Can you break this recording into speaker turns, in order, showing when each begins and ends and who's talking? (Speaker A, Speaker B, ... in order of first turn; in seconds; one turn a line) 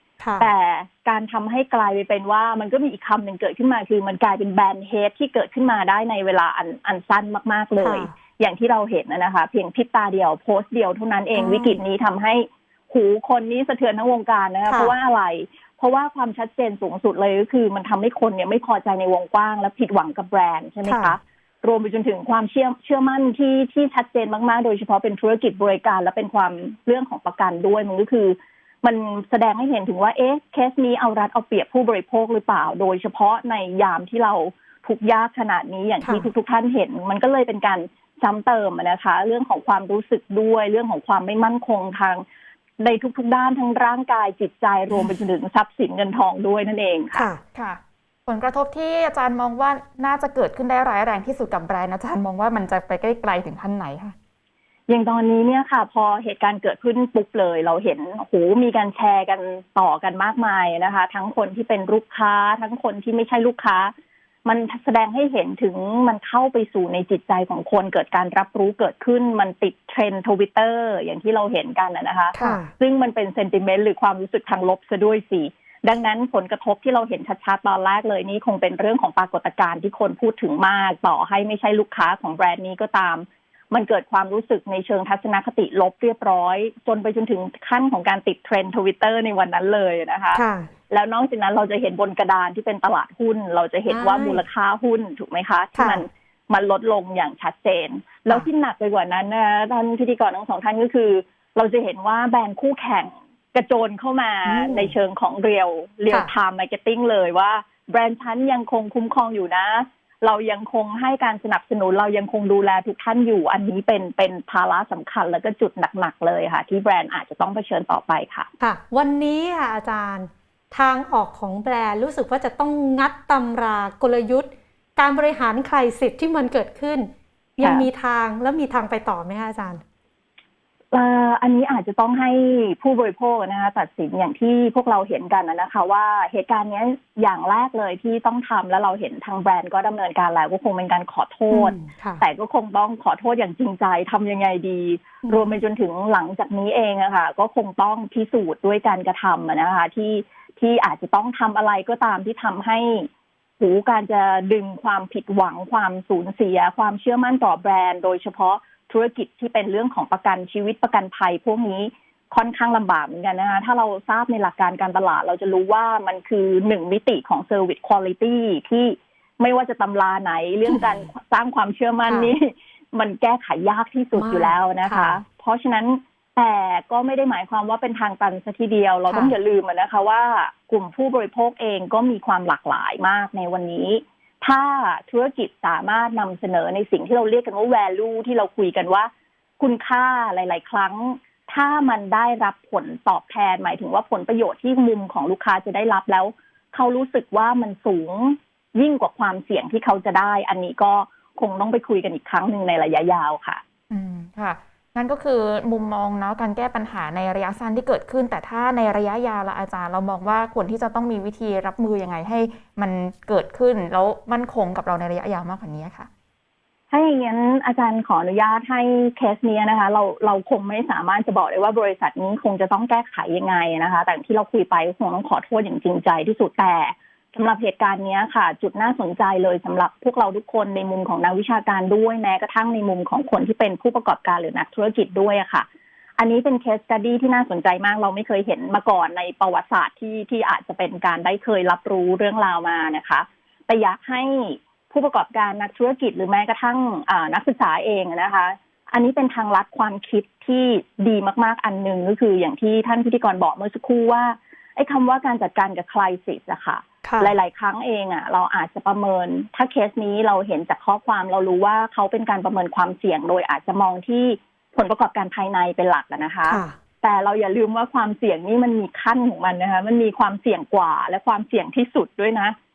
Speaker A: 0.2-0.5
Speaker B: 0.4-42.2
Speaker A: 7.8-8.1
Speaker A: 11.3-11.8
Speaker A: 14.7-14.9
Speaker A: 20.9-21.1
Speaker A: 36.0-36.3
Speaker B: 42.8-47.3
Speaker A: 47.1-47.4
Speaker C: 47.5-54.1
Speaker B: 54.9-63.9
Speaker B: 64.4-118.5
Speaker A: 72.3-72.7
Speaker A: 90.3-90.7
Speaker A: 93.9-94.4
Speaker A: 95.7-96.0
Speaker A: 104.5-104.9
Speaker A: 118.6-129.8
Speaker B: 130.9-153.1
Speaker A: 141.5-142.2
Speaker A: 145.2-145.5
Speaker B: 153.6-203.6
Speaker A: 170.7-170.9
Speaker A: 174.2-175.2
Speaker A: 179.1-179.3
Speaker C: 203.9-216.1
Speaker B: 216.9-235.7
Speaker B: 236.2-272.5
Speaker A: 257.0-257.3
Speaker A: 266.5-266.7